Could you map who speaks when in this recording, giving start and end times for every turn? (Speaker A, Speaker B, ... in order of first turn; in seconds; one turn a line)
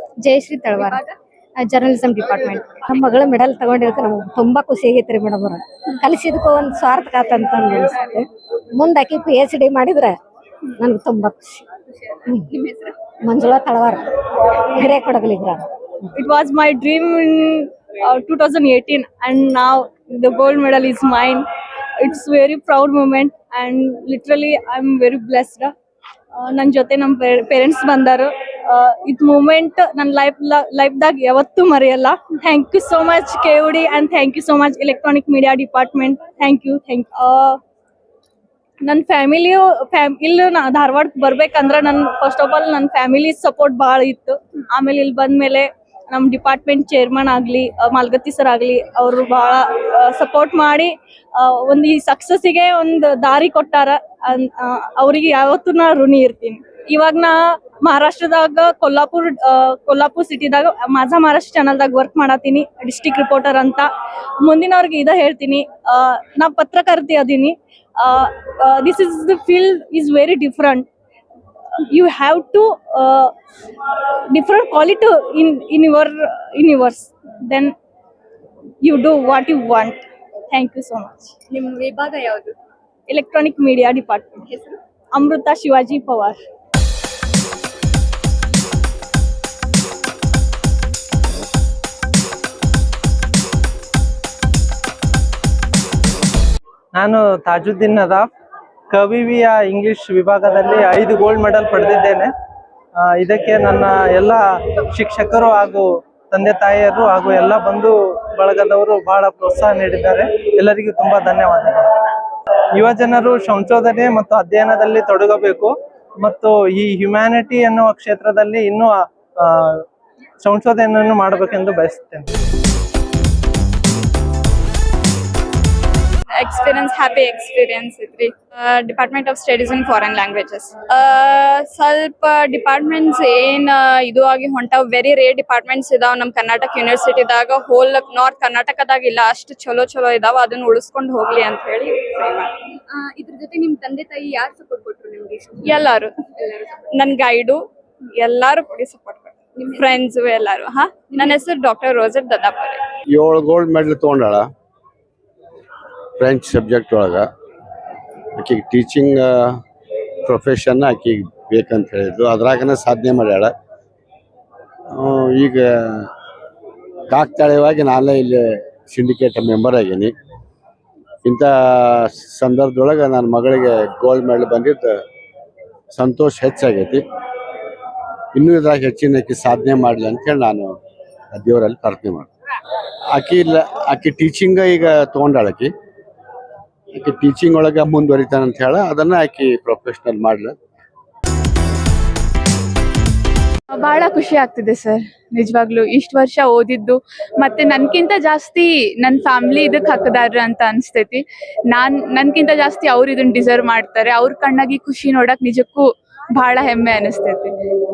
Speaker A: 0.2-1.0
Speaker A: 1.7-2.8
Speaker B: 2.9-10.2
Speaker B: 10.8-11.7
Speaker C: 12.7-13.0
Speaker B: 13.2-15.7
Speaker D: 16.2-21.5
Speaker D: 22.0-25.7
Speaker D: 26.4-37.6
Speaker D: 38.8-63.9
Speaker D: 64.4-70.9
Speaker D: 71.9-73.3
Speaker D: 74.3-77.8
Speaker D: 78.8-81.4
Speaker C: 81.5-82.5
Speaker D: 83.1-86.4
Speaker E: 96.9-98.2
Speaker E: 98.9-102.3
Speaker E: 103.0-111.9
Speaker E: 112.8-119.7
Speaker E: 120.4-122.2
Speaker F: 126.4-142.6
Speaker C: 142.9-146.8
Speaker F: 145.7-146.1
Speaker F: 146.8-147.7
Speaker F: 148.2-152.8
Speaker C: 149.7-149.9
Speaker G: 153.1-154.5
Speaker G: 156.2-157.3
Speaker G: 158.4-159.6
Speaker G: 160.2-163.5
Speaker G: 164.9-166.1
Speaker G: 167.1-170.1
Speaker G: 171.2-175.0
Speaker G: 175.9-177.0
Speaker G: 178.3-180.8
Speaker G: 181.3-182.3
Speaker G: 183.1-185.7
Speaker G: 187.0-190.5
Speaker H: 193.7-207.5